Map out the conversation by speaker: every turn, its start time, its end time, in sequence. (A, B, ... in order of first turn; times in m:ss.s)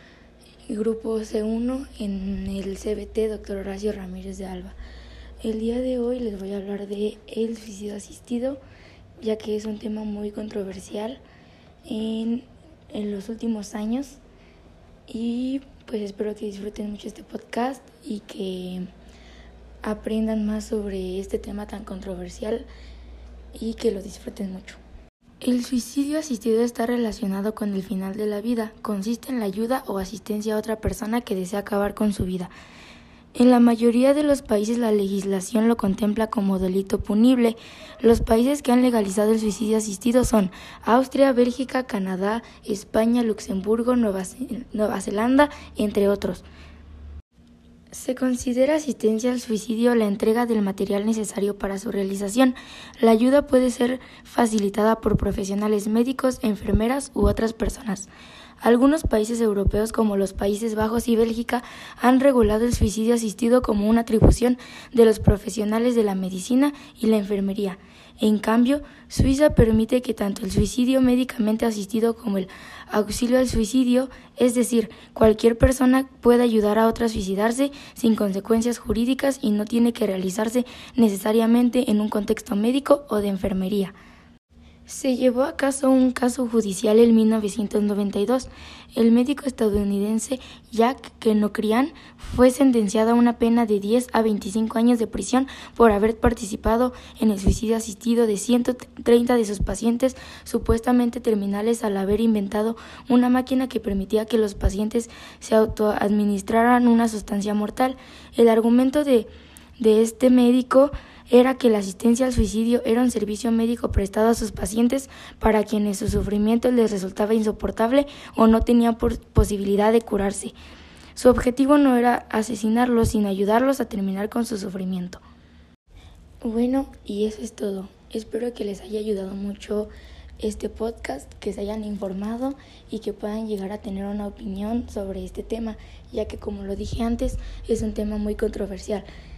0:00.7-0:04.7 A
0:05.4-0:08.6 A
0:09.2-0:11.2 A
0:11.8-0:14.2 A
0:15.1-0:18.9 A
0:19.8-0:22.7 A
0:23.5-0:24.8 A
0:25.4-0:32.5 A
0:33.3-0:46.4 A
0:47.9-0:58.1 A
0:58.6-1:23.9 A
1:24.9-2:00.5 A
2:01.2-2:05.2 A
2:06.4-2:19.0 A